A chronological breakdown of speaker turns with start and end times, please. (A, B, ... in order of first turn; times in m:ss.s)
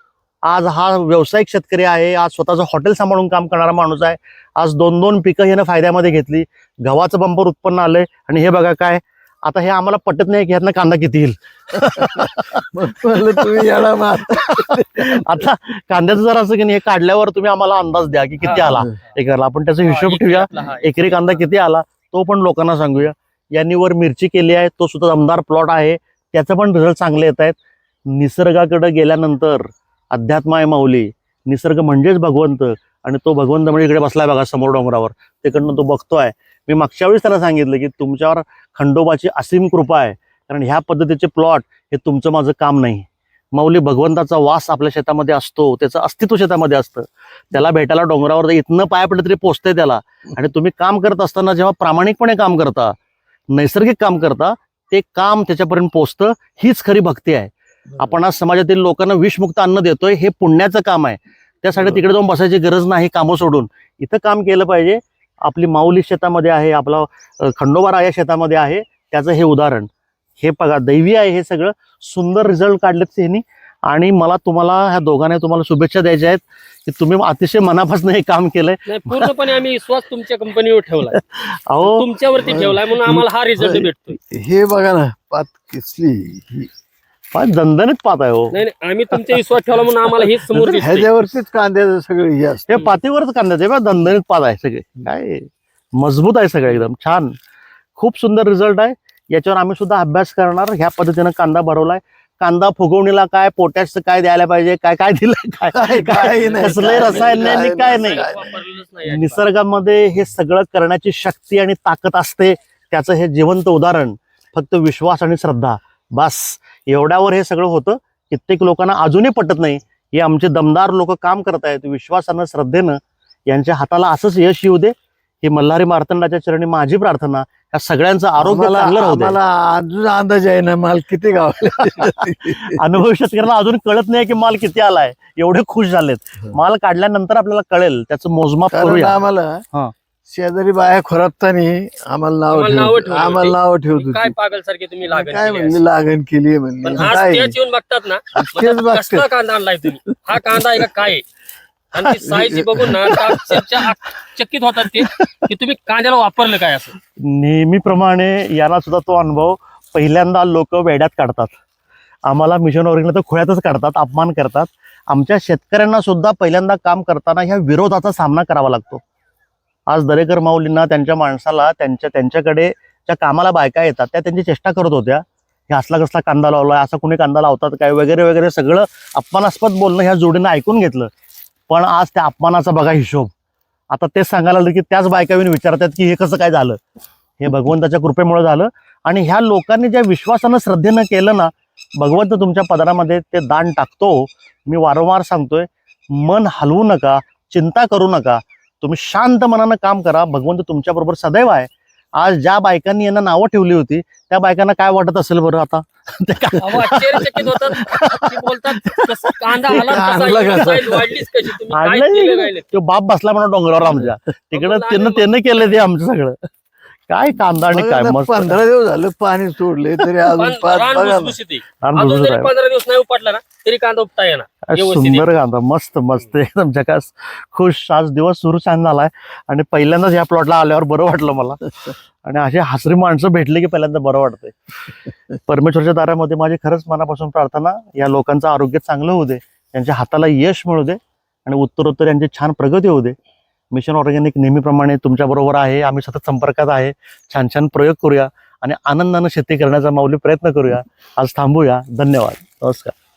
0:00.4-0:12.7 A
0:12.0-0:15.2 B
0:13.4-0:13.6 A
0:14.3-0:53.0 A
0:18.4-0:18.8 C
0:19.8-0:21.4 C
0:53.5-1:19.4 A
1:18.9-1:21.2 C
1:21.1-1:23.2 A
1:21.8-1:24.2 C
1:22.4-1:22.8 B
1:23.6-1:26.7 B
1:27.3-1:28.6 A
1:28.5-1:31.1 C
1:30.5-1:32.8 B
1:32.7-1:37.3 A
1:38.0-1:48.3 A
1:45.7-1:48.5 B
1:46.4-1:49.4 C
1:49.0-2:09.4 A
2:08.4-2:12.8 B
2:11.8-2:19.2 A
2:18.7-2:19.6 B
2:20.3-2:24.3 B
2:22.5-2:25.8 C
2:25.1-2:27.6 B
2:26.8-2:31.2 C
2:28.3-2:29.3 B
2:30.1-2:30.8 B
2:31.9-2:37.0 C
2:32.1-2:33.7 B
2:37.2-2:41.6 A
2:42.2-2:49.0 A
2:49.9-3:01.1 A
3:01.7-3:03.3 A
3:03.9-3:06.8 A
3:07.4-3:29.1 A
3:26.6-3:32.7 C
3:29.6-3:30.7 A
3:29.8-3:31.2 B
3:31.7-3:36.4 A
3:34.5-3:35.3 C
3:37.1-3:38.6 A
3:37.7-3:41.4 B
3:40.3-3:45.3 C
3:41.8-3:42.5 A
3:44.6-4:03.2 A
4:03.7-4:12.9 A